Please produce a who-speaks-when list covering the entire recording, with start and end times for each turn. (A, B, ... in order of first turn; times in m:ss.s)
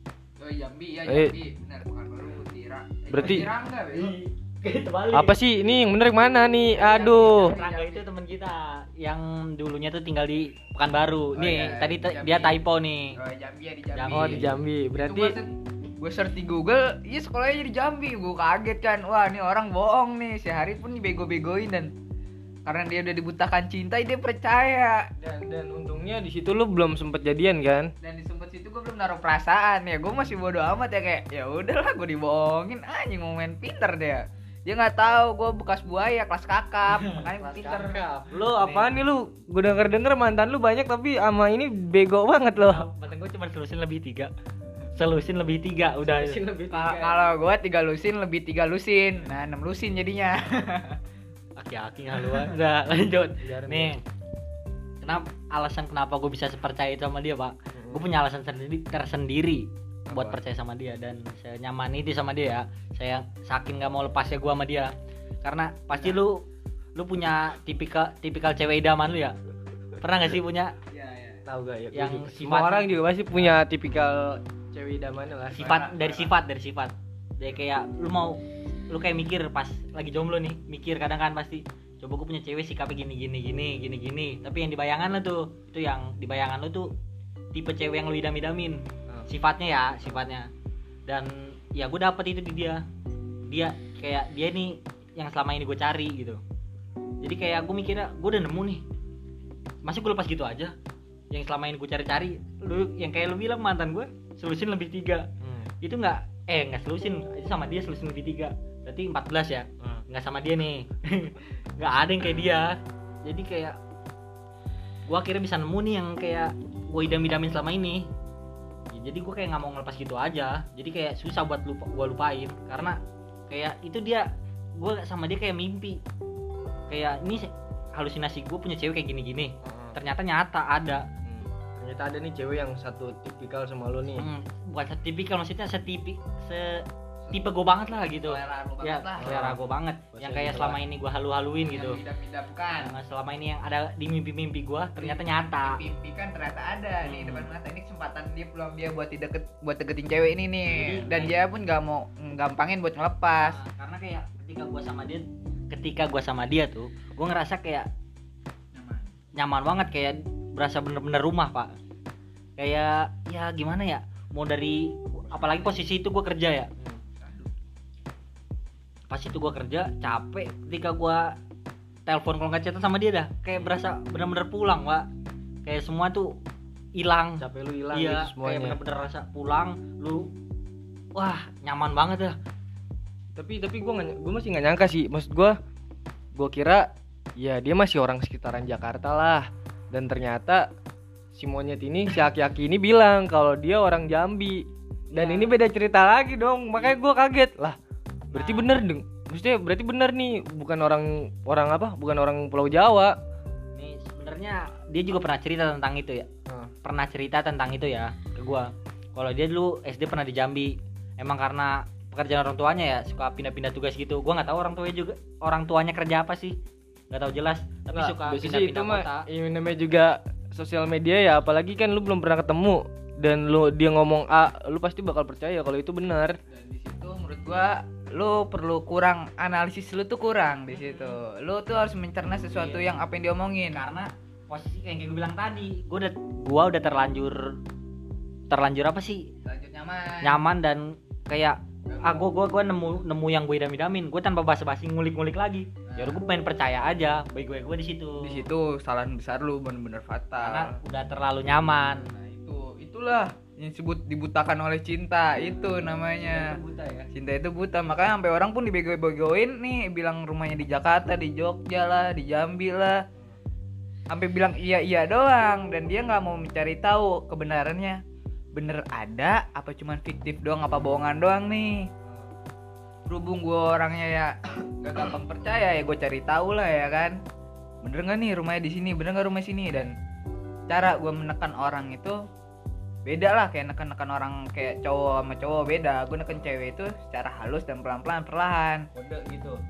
0:00.4-0:04.2 A
0:01.1-0:01.4 B
0:03.1-0:03.5 B
0:03.9-0:05.4 C
0:05.1-0:07.6 B
0:06.7-0:13.2 C
0:06.8-0:08.0 A
0:11.4-0:12.6 A
0:13.1-0:21.9 A
0:13.9-0:14.5 C
0:14.1-0:15.4 B
0:22.7-0:25.1 A
0:25.2-0:27.9 B
0:28.0-0:38.0 A
0:36.9-0:37.2 C
0:37.2-0:42.9 B
0:38.4-0:38.9 C
0:42.6-0:44.3 C
0:44.9-0:46.4 C
0:46.0-0:47.3 B
0:46.7-0:51.0 A
0:51.6-0:54.0 C
0:53.4-0:53.9 B
0:55.0-1:04.9 C
0:57.8-0:58.0 B
1:00.1-1:00.4 A
1:05.4-1:09.4 C
1:10.0-1:10.8 C
1:10.9-1:11.4 A
1:11.5-1:15.7 B
1:11.9-1:13.6 C
1:15.5-1:26.9 C
1:15.5-1:16.3 A
1:27.5-1:30.5 C
1:31.1-1:32.8 C
1:33.5-1:36.4 C
1:37.2-1:38.8 C
1:39.8-1:40.8 C
1:41.3-1:45.3 C
1:45.4-1:45.7 B
1:45.8-1:53.8 C
1:55.1-1:58.1 C
1:58.9-2:06.0 C
2:06.9-2:11.1 C
2:09.6-2:10.0 B
2:11.2-2:14.3 B
2:14.2-2:22.0 C
2:18.2-2:19.5 A
2:19.2-2:19.6 B
2:20.1-2:20.8 B
2:21.6-2:22.9 A
2:22.8-2:25.8 C
2:25.0-2:33.6 A
2:27.0-2:27.5 C
2:30.7-2:31.4 C
2:33.4-2:37.9 C
2:38.7-2:39.1 A
2:39.4-2:41.7 C
2:42.6-2:46.7 C
2:45.3-2:45.8 A
2:47.1-2:47.5 A
2:49.1-2:51.4 C
2:52.1-2:55.1 C
2:55.6-2:56.4 C
2:57.0-3:00.3 C
2:57.4-2:58.8 B
3:01.2-3:02.4 C
3:03.4-3:05.6 B
3:06.3-3:10.7 B
3:11.3-3:17.8 B
3:15.1-3:15.6 C
3:18.3-3:18.8 C
3:18.3-3:23.2 B
3:23.8-3:26.3 C
3:26.5-3:26.7 B
3:26.8-3:36.6 C
3:37.1-3:39.3 C
3:37.9-3:46.4 B
3:46.5-3:53.8 A
3:50.8-3:51.1 C
3:52.5-3:52.8 C
3:53.7-3:57.6 C
3:58.5-3:59.3 C
3:59.4-4:00.4 A
4:00.2-4:08.5 C
4:01.9-4:02.3 A
4:05.9-4:06.2 A
4:08.2-4:10.8 A
4:10.4-4:12.1 C
4:11.8-4:16.6 A
4:16.3-4:17.1 B
4:17.1-4:23.0 A
4:24.1-4:28.0 A
4:28.5-4:31.9 A
4:33.1-4:37.2 A
4:37.8-4:40.0 A
4:40.7-4:42.2 A
4:43.0-4:48.9 A
4:49.0-4:49.6 B